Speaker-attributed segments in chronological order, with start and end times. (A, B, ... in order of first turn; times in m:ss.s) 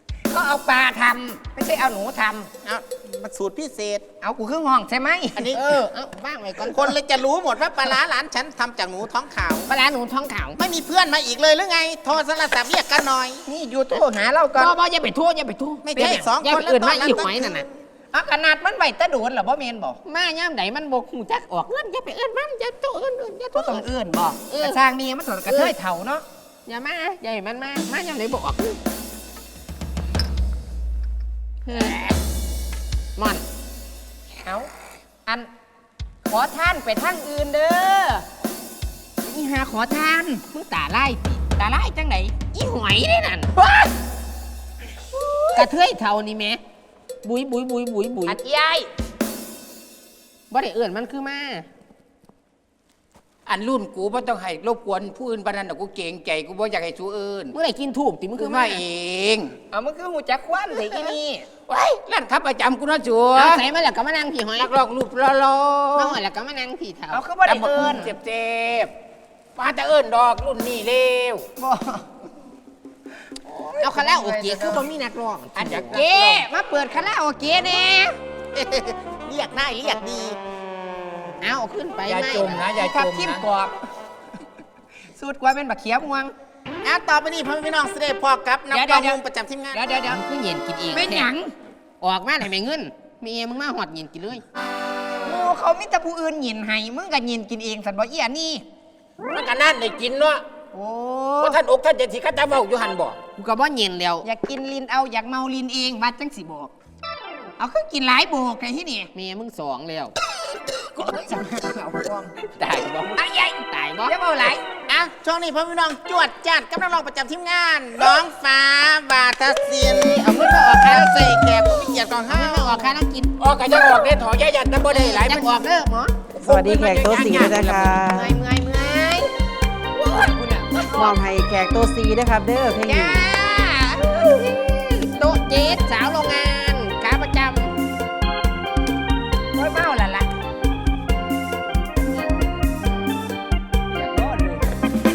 0:00.3-0:02.5 A
0:02.6-0:04.1 B
0:04.2-0:05.6 A
0:05.4-0:05.8 B
0:05.5-0:06.9 C
0:06.6-0:09.7 B
0:09.7-0:10.6 C
0:10.6-0:13.4 B
0:13.5-0:14.8 A
0:14.6-0:17.6 C
0:15.9-0:17.6 B
0:16.0-0:16.3 A
0:18.1-0:20.0 A
0:20.0-0:23.8 C
0:23.5-0:26.2 A
0:24.5-0:24.8 C
0:25.5-0:25.7 C
0:26.7-0:28.8 C
0:31.6-0:32.0 C
0:31.7-0:32.1 A
0:33.2-0:33.4 C
0:34.4-0:34.7 A
0:36.3-0:38.3 A
0:39.4-0:40.4 A
0:40.4-0:41.5 C
0:41.5-0:42.4 A
0:42.4-0:43.6 C
0:43.6-0:43.9 A
0:45.1-0:45.7 A
0:45.6-0:46.6 C
0:47.2-0:48.4 C
0:48.3-0:48.9 A
0:50.5-0:51.7 C
0:53.5-0:57.5 D
0:57.5-0:58.8 C
0:58.4-0:59.6 D
0:59.7-1:01.5 A
1:01.7-1:03.6 D
1:03.4-1:04.7 C
1:04.6-1:06.2 D
1:06.0-1:07.2 C
1:07.1-1:08.2 A
1:07.5-1:08.9 D
1:09.6-1:11.5 D
1:11.6-1:12.0 A
1:13.4-1:14.8 A
1:13.8-1:16.0 C
1:14.3-1:14.6 D
1:15.6-1:16.5 D
1:15.6-1:18.2 A
1:18.5-1:20.4 B
1:21.4-1:22.6 C
1:22.0-1:23.5 D
1:22.7-1:23.8 A
1:25.1-1:26.3 A
1:26.8-1:30.0 B
1:28.7-1:29.2 A
1:29.7-1:30.2 A
1:30.0-1:31.3 C
1:30.9-1:31.5 A
1:32.0-1:34.4 C
1:35.2-1:38.6 A
1:39.3-1:40.4 D
1:40.7-1:41.6 A
1:41.4-1:43.2 D
1:43.4-1:44.3 C
1:44.2-1:46.7 A
1:47.6-1:49.1 A
1:49.1-1:50.2 C
1:50.7-1:54.7 A
1:52.6-1:54.2 C
1:54.9-2:03.0 B
2:00.2-2:01.4 C
2:02.3-2:03.3 C
2:03.4-2:05.6 D
2:04.9-2:06.2 C
2:06.4-2:08.0 D
2:06.4-2:08.4 E
2:08.0-2:09.3 A
2:10.0-2:11.2 A
2:10.9-2:13.2 E
2:12.9-2:13.1 A
2:13.1-2:17.8 C
2:19.6-2:20.3 A
2:23.9-2:24.8 A